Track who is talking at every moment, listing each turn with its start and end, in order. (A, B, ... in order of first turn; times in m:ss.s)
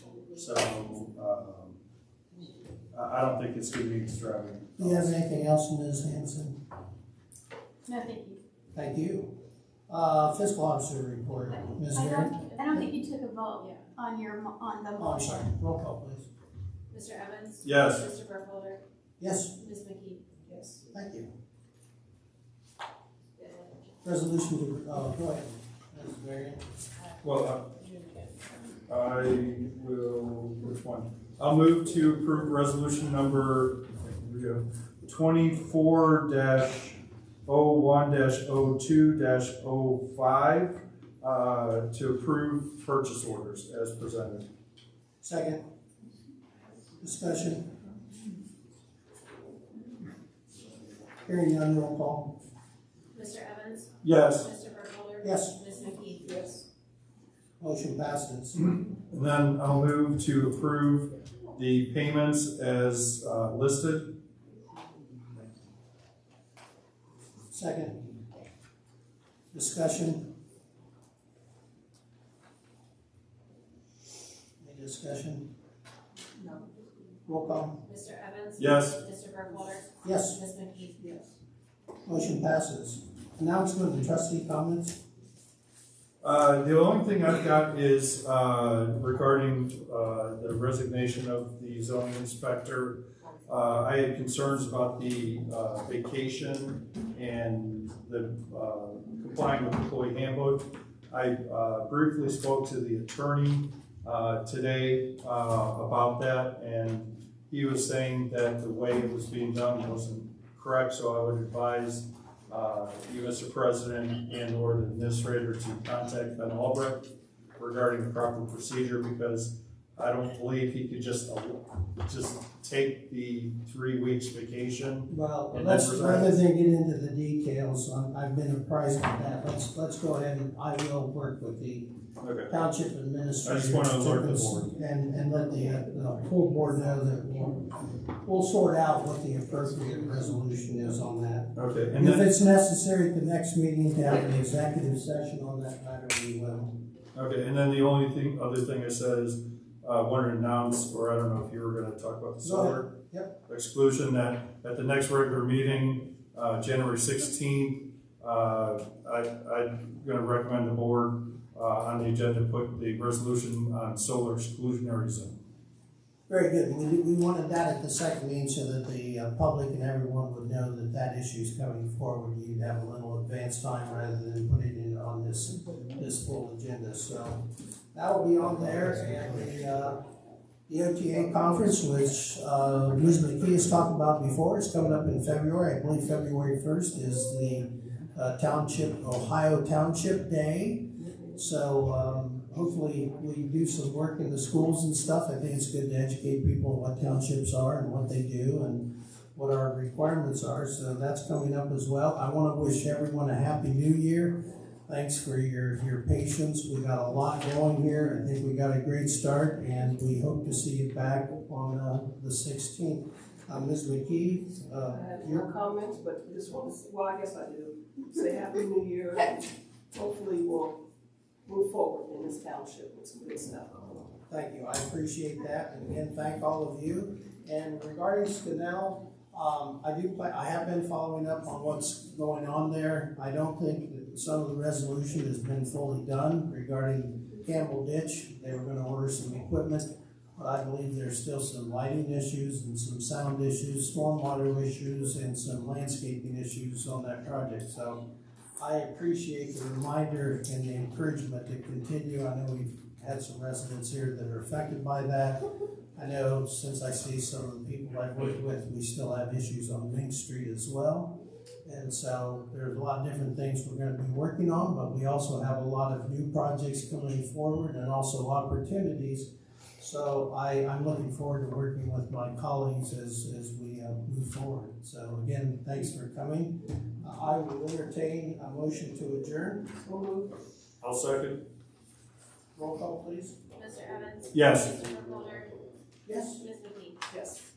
0:00.3-0:01.8 A
0:02.9-0:05.1 A
0:04.8-0:06.6 B
0:07.9-0:08.4 C
0:08.7-0:09.3 B
0:09.9-0:12.8 B
0:11.9-0:15.4 C
0:13.6-0:13.9 D
0:15.0-0:16.3 B
0:16.9-0:18.8 D
0:17.6-0:18.1 A
0:19.2-0:19.5 B
0:19.5-0:20.2 D
0:20.5-0:20.8 E
0:20.9-0:21.3 B
0:24.0-0:26.6 B
0:27.2-0:27.8 A
0:28.9-0:44.4 A
0:45.2-0:45.6 B
0:47.0-0:47.6 B
0:51.2-0:52.3 B
0:53.1-0:56.4 D
0:54.0-0:54.5 A
0:55.2-0:55.6 B
0:56.2-0:56.6 E
0:57.6-0:58.7 B
0:58.8-1:04.1 A
1:07.5-1:08.0 B
1:09.5-1:10.3 B
1:14.6-1:15.5 B
1:17.3-1:17.8 B
1:17.8-1:21.0 D
1:18.6-1:19.0 A
1:20.0-1:20.4 B
1:22.0-1:25.0 B
1:26.2-1:57.0 A
1:57.6-2:06.3 A
2:05.1-2:11.9 B
2:12.2-2:12.5 A
2:12.5-2:26.7 B
2:13.4-2:14.7 A
2:21.5-2:22.3 A
2:27.1-2:32.9 A
2:32.4-2:33.3 B
2:33.5-2:45.3 A
2:46.3-3:00.0 B
3:00.7-3:35.4 B
3:34.9-3:40.8 E
3:41.4-3:44.0 E
3:44.3-4:08.0 B
4:08.6-4:15.4 B
4:16.0-4:21.1 B
4:21.6-4:29.3 B
4:29.8-4:39.7 B
4:39.8-4:40.3 E
4:40.8-4:41.4 A
4:42.6-4:43.4 B
4:43.6-4:45.5 D
4:44.3-4:44.8 A
4:46.0-4:46.4 B
4:46.4-4:47.0 D
4:47.1-4:47.5 E